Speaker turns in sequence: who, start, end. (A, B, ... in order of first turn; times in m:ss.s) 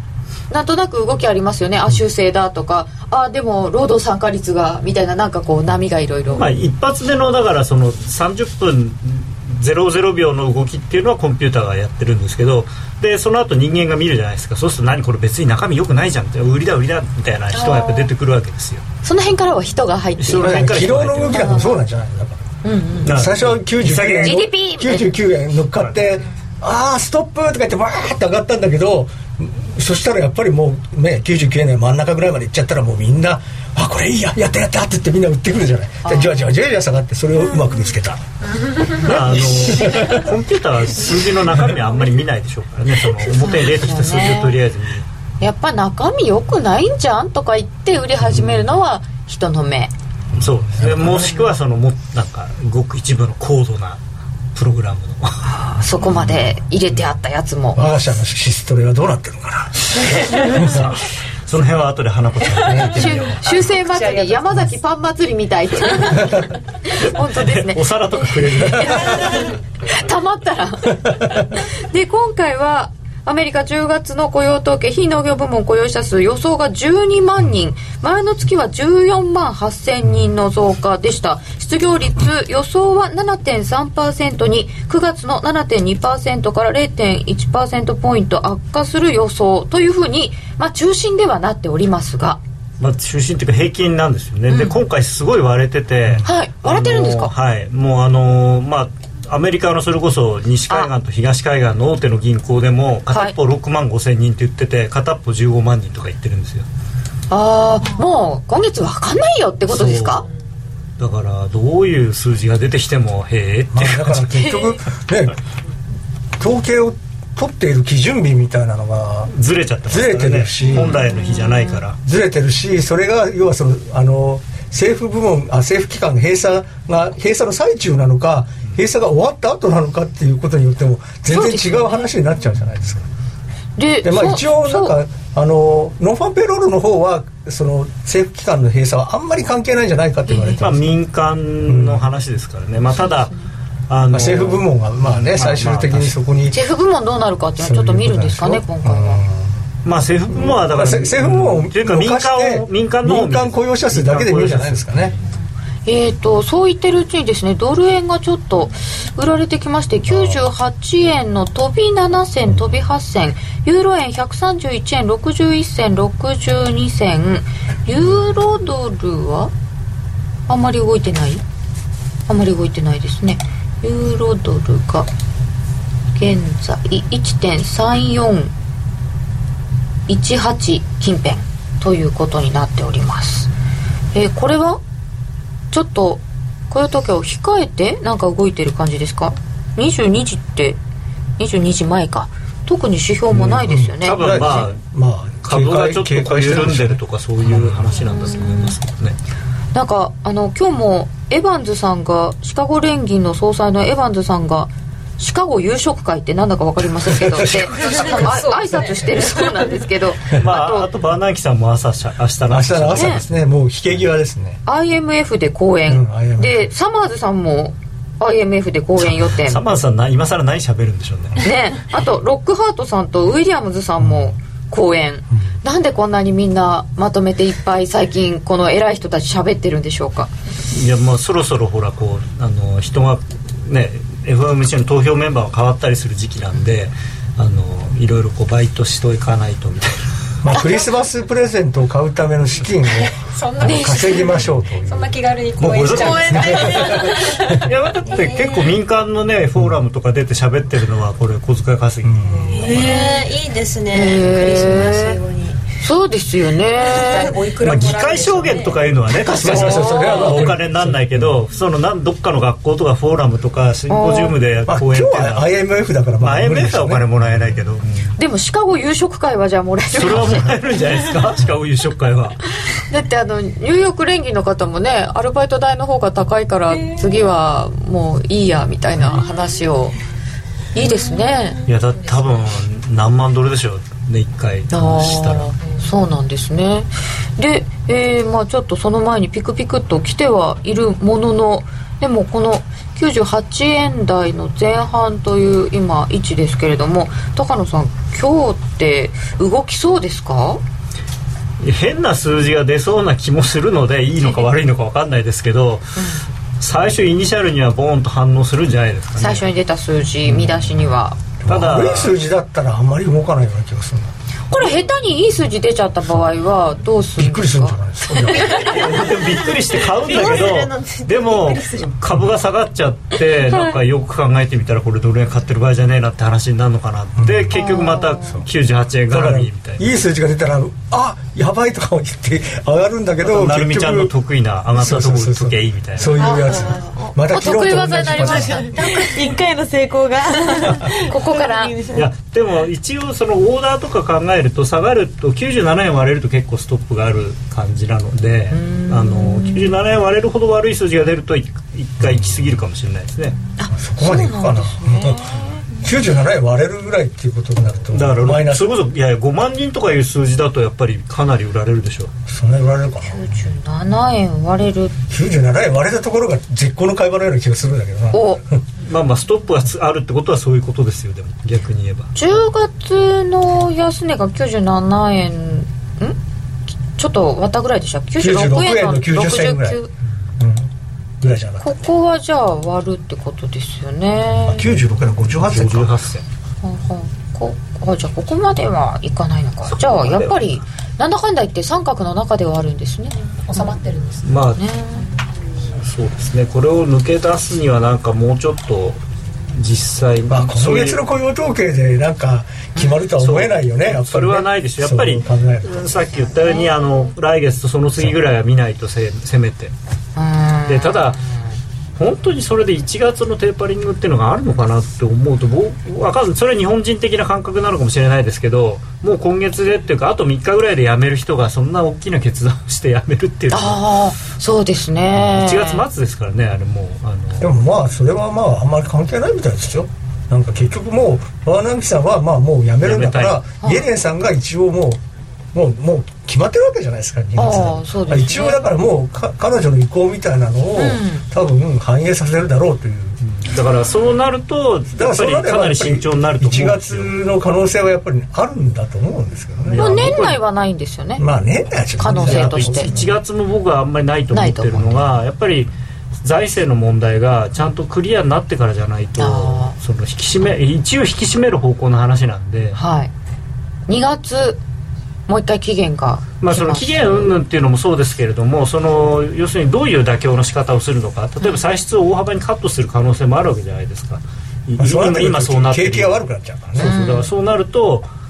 0:00.5-0:06.5 A
0:06.3-0:18.8 B
0:17.5-0:18.1 A
0:19.0-0:21.7 A
0:20.2-0:21.7 B
0:20.4-0:22.5 C
0:22.6-0:23.1 A
0:23.0-0:38.2 C
0:23.0-0:24.5 B
0:24.2-0:25.2 A
0:36.0-0:36.5 A
0:39.0-0:40.3 C
0:39.0-0:45.1 B
0:43.4-0:44.6 A
0:45.4-0:49.9 A
0:50.4-0:54.0 B
0:50.4-0:51.4 C
0:54.6-0:55.5 B
0:55.4-0:57.8 A
0:57.8-1:00.9 C
1:00.4-1:03.4 B
1:02.6-1:03.4 C
1:02.9-1:32.4 A
1:03.7-1:04.4 D
1:07.0-1:09.4 B
1:32.8-1:46.7 B
1:34.5-1:34.8 A
1:36.2-1:37.3 A
1:47.3-1:50.3 A
1:49.7-1:50.2 B
1:51.0-1:54.3 B
1:53.7-1:55.4 C
1:56.4-1:59.3 C
1:59.3-2:02.0 B
1:59.9-2:01.0 C
2:00.8-2:01.8 A
2:02.0-2:13.1 C
2:11.3-2:12.1 A
2:13.8-2:15.0 A
2:14.0-2:20.9 C
2:20.3-2:20.6 A
2:20.6-2:23.3 B
2:21.7-2:22.1 C
2:23.9-2:26.1 B
2:24.1-2:26.6 C
2:26.5-2:29.2 A
2:27.6-2:29.5 C
2:29.8-2:35.2 B
2:30.3-2:35.1 C
2:35.9-2:49.5 A
2:50.5-2:51.4 A
2:52.3-2:55.1 A
2:56.2-2:58.5 A
3:00.1-3:03.5 A
3:04.1-3:04.8 A
3:05.7-3:10.8 A
3:11.4-3:14.7 A
3:13.3-3:17.8 C
3:14.0-3:14.8 B
3:15.4-3:19.2 B
3:18.1-3:18.8 A
3:19.7-3:30.9 A
3:27.0-3:28.2 C
3:27.8-3:29.7 D
3:30.4-3:33.4 B
3:32.5-3:34.6 C
3:32.9-3:33.2 A
3:34.7-3:39.6 A
3:35.9-3:36.7 C
3:39.0-3:41.4 B
3:41.4-3:50.3 A
3:44.0-3:44.4 C
3:50.7-4:00.0 B
4:00.4-4:07.6 C
4:03.1-4:07.5 D
4:03.6-4:04.2 A
4:05.6-4:13.1 B
4:06.0-4:07.1 E
4:08.1-4:08.8 E
4:12.0-4:12.7 C
4:12.5-4:15.6 E
4:12.6-4:13.1 A
4:13.9-4:15.2 A
4:15.8-4:17.4 A
4:16.9-4:18.8 D
4:16.9-4:17.4 E
4:17.6-4:25.5 B
4:19.1-4:21.3 C
4:19.4-4:20.3 A
4:23.9-4:24.4 A
4:24.7-4:27.1 C
4:26.2-4:28.1 B
4:28.2-4:30.5 A
4:29.9-4:32.4 B
4:32.9-4:40.0 A
4:40.8-4:41.6 A
4:41.7-4:45.5 B
4:44.7-5:00.6 A
5:01.6-5:06.0 B
5:06.0-5:06.2 A
5:06.6-5:09.5 B
5:09.2-5:11.2 A
5:11.4-5:14.1 C
5:11.5-5:12.2 B
5:14.5-5:18.7 A
5:17.2-5:18.6 C
5:18.3-5:30.0 B
5:19.9-5:21.9 E
5:27.2-5:27.6 C
5:27.5-5:28.4 A
5:29.1-5:34.1 C
5:33.2-5:36.2 B
5:34.8-5:38.8 C
5:36.2-5:36.8 F
5:36.2-5:39.1 A
5:38.2-5:42.0 F
5:41.1-5:41.7 A
5:41.9-5:53.4 B
5:48.5-5:49.7 A
5:52.0-5:52.5 C
5:53.6-5:55.6 A
5:53.7-5:58.8 C
5:57.9-6:02.1 B
6:02.3-6:03.3 C
6:03.0-6:05.0 A
6:05.1-6:08.6 C
6:08.1-6:08.4 A
6:08.8-6:12.1 B
6:12.2-6:16.2 A
6:17.0-6:19.9 A
6:18.2-6:19.8 C
6:20.4-6:20.7 C
6:21.2-6:21.8 C
6:21.6-6:24.7 A
6:24.4-6:25.9 C
6:25.4-6:26.2 B
6:26.6-6:33.7 A
6:29.7-6:30.5 B
6:33.5-6:34.3 D
6:34.2-6:34.6 B
6:34.6-6:35.1 A
6:35.8-6:41.0 B
6:40.3-6:45.8 C
6:43.2-6:49.7 B
6:46.2-6:46.7 A
6:50.2-6:51.4 A
6:50.7-6:51.2 B
6:52.0-7:03.8 B
7:03.5-7:05.8 A
7:05.2-7:07.5 B
7:07.4-7:15.0 C
7:12.8-7:13.5 B
7:15.5-7:23.2 C
7:17.4-7:18.6 A
7:20.8-7:21.3 A
7:23.2-7:27.1 B
7:25.0-7:30.1 C
7:29.7-7:30.4 B
7:29.8-7:31.2 A
7:31.2-7:33.2 C
7:32.0-7:32.9 A
7:32.1-7:35.7 B
7:34.3-7:35.0 A
7:36.2-7:42.8 B
7:39.2-7:39.8 A
7:42.8-7:43.1 A
7:43.9-7:44.6 A
7:45.3-7:47.3 A
7:46.4-7:56.2 B
7:54.8-7:57.0 C
7:56.8-7:58.1 B
7:56.8-7:57.3 A